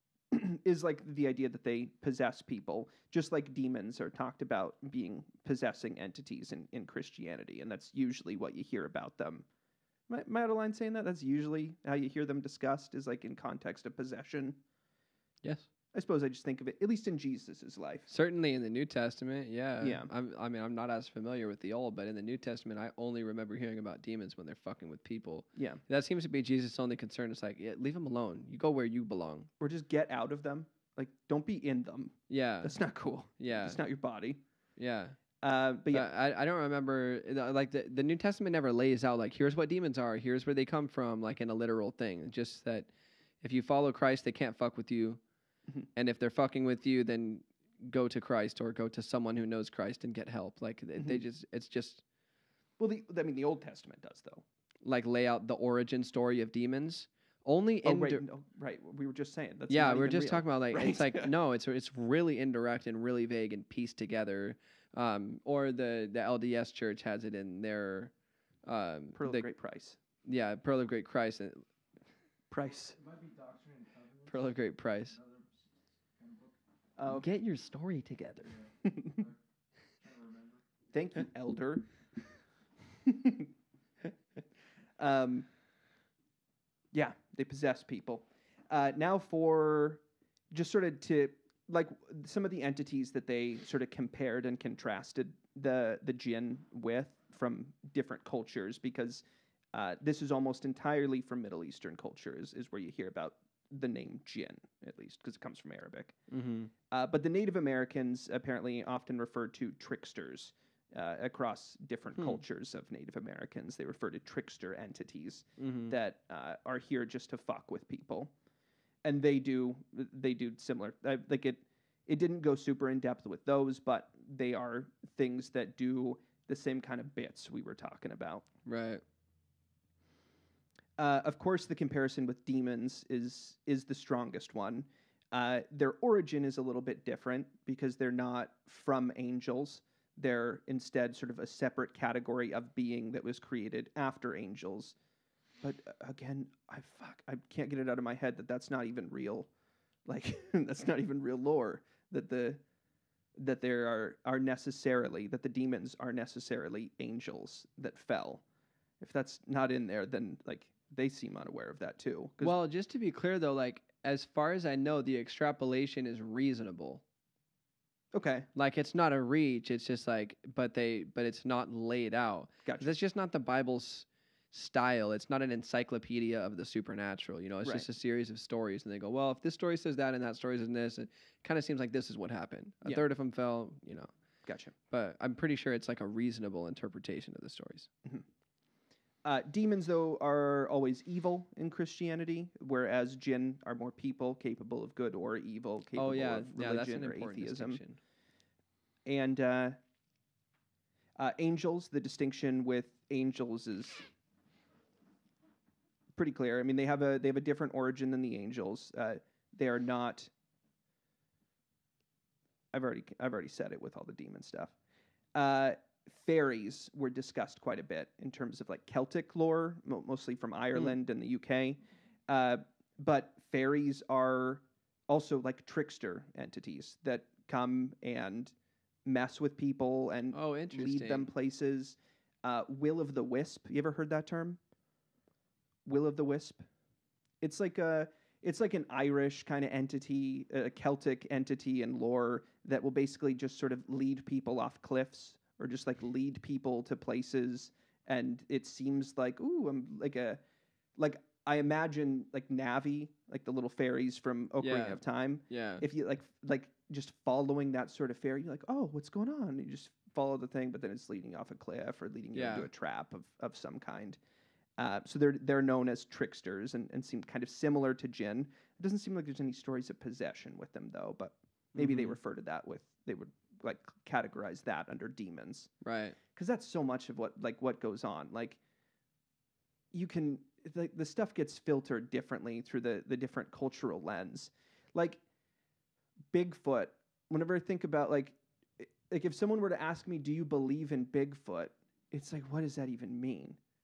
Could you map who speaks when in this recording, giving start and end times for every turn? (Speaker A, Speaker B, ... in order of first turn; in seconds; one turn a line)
Speaker A: 0.3-9.4
Speaker A: 10.1-14.6
Speaker A: 15.9-18.1
Speaker B: 18.1-29.5
Speaker A: 19.8-20.1
Speaker A: 25.6-25.8
Speaker A: 29.6-34.4
Speaker B: 32.3-32.8
Speaker B: 33.4-33.8
Speaker B: 34.8-35.2
Speaker A: 35.4-36.1
Speaker B: 35.9-42.9
Speaker B: 43.4-45.2
Speaker B: 45.9-52.0
Speaker A: 52.8-54.4
Speaker B: 54.8-58.2
Speaker A: 57.8-61.3
Speaker B: 59.7-68.1
Speaker B: 68.6-69.4
Speaker A: 69.1-70.0
Speaker B: 70.2-71.6
Speaker A: 72.5-73.0
Speaker C: 72.6-76.6
Speaker B: 74.3-75.2
Speaker A: 77.0-77.3
Speaker B: 77.1-78.6
Speaker C: 78.4-79.4
Speaker A: 78.8-79.2
Speaker C: 79.9-80.6
Speaker A: 80.9-81.9
Speaker A: 83.0-83.5
Speaker A: 85.0-85.5
Speaker A: 86.9-106.2
Speaker B: 106.3-106.7
Speaker A: 106.9-118.3
Speaker B: 115.6-115.9
Speaker A: 119.0-128.4
Speaker B: 128.6-129.0
Speaker A: 131.0-144.9
Speaker A: 145.6-149.5
Speaker A: 150.1-152.6
Speaker A: 153.4-158.4
Speaker A: 159.0-162.5
Speaker B: 162.4-167.0
Speaker A: 168.1-168.5
Speaker B: 168.5-184.1
Speaker A: 172.6-172.9
Speaker A: 184.4-184.7
Speaker B: 184.9-187.9
Speaker A: 189.2-197.8
Speaker B: 195.9-198.0
Speaker A: 199.1-199.8
Speaker A: 201.2-204.1
Speaker A: 206.1-210.3
Speaker A: 212.7-214.7
Speaker A: 215.3-228.5
Speaker A: 229.0-234.6
Speaker B: 230.3-231.3
Speaker A: 235.8-236.6
Speaker A: 237.4-250.4
Speaker A: 251.0-264.2
Speaker B: 254.6-255.8
Speaker B: 262.3-262.7
Speaker A: 264.8-275.7
Speaker B: 271.7-272.1
Speaker B: 275.8-276.2
Speaker A: 276.3-278.6
Speaker A: 279.9-285.2
Speaker A: 286.3-293.6